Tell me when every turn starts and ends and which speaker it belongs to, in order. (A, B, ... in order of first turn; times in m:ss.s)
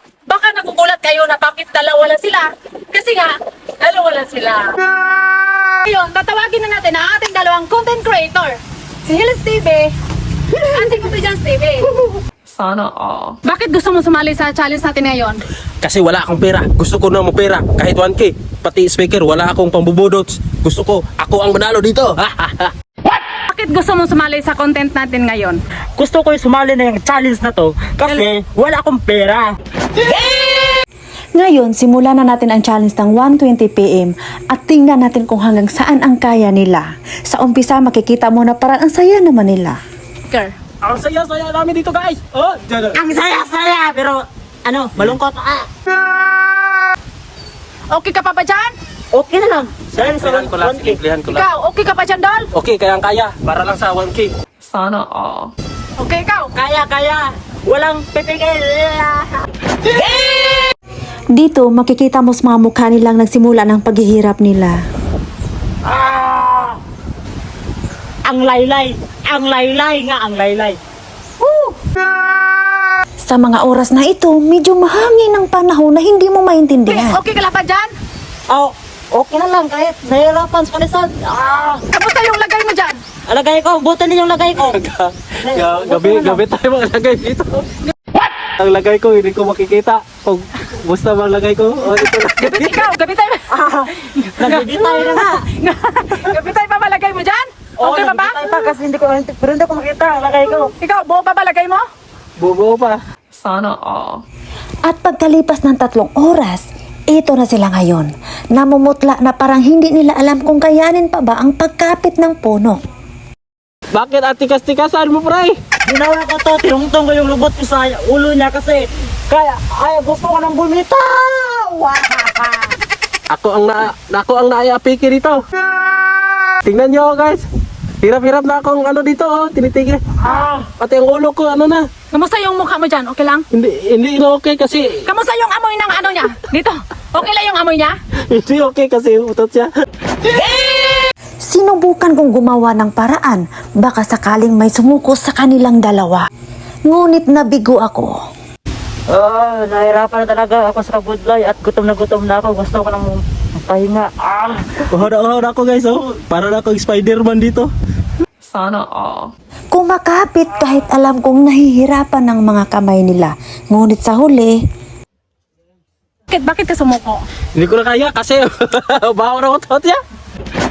0:00.3-0:04.8 A
0:05.8-0:09.9 A
0:10.6-0:11.9 A
0:12.5-0:13.4 B
0:13.4-0:15.4 A
0:15.8-0:22.7 C
0:23.5-0:25.6 A
0:26.0-0:29.5 D
0:31.4-0:39.8 E
0:40.8-0:43.0 C
0:42.9-0:45.7 D
0:47.9-0:48.7 A
0:49.1-0:51.0 D
0:50.0-0:51.5 C
0:51.3-0:52.5 A
0:52.5-0:54.3 C
0:54.6-0:55.5 B
0:56.0-0:56.5 A
0:56.6-0:59.3 D
0:59.9-1:00.3 D
1:01.4-1:04.8 E
1:05.8-1:06.8 D
1:08.2-1:10.8 D
1:11.4-1:11.8 D
1:13.3-1:17.2 E
1:16.9-1:17.9 A
1:18.5-1:21.8 D
1:21.9-1:23.0 A
1:23.3-1:24.8 D
1:24.7-1:27.7 C
1:25.4-1:26.4 D
1:28.6-1:32.8 C
1:32.4-1:33.5 A
1:33.5-1:35.4 D
1:34.2-1:38.7 A
1:37.8-1:40.7 D
1:40.5-1:41.9 A
1:42.4-1:43.0 C
1:43.4-1:44.2 B
1:44.8-1:52.8 E
1:53.9-1:55.6 C
1:55.8-2:02.7 D
2:03.3-2:05.4 C
2:06.6-2:07.4 C
2:08.0-2:10.1 C
2:10.2-2:10.7 D
2:10.8-2:11.9 C
2:12.1-2:13.4 A
2:13.5-2:15.0 C
2:15.1-2:18.0 A
2:18.3-2:19.7 C
2:21.4-2:26.3 E
2:26.9-2:28.2 E
2:29.1-2:34.8 D
2:34.9-2:37.7 C
2:38.5-2:39.3 B
2:39.7-2:44.6 E
2:46.3-2:47.2 A
2:47.6-2:50.0 C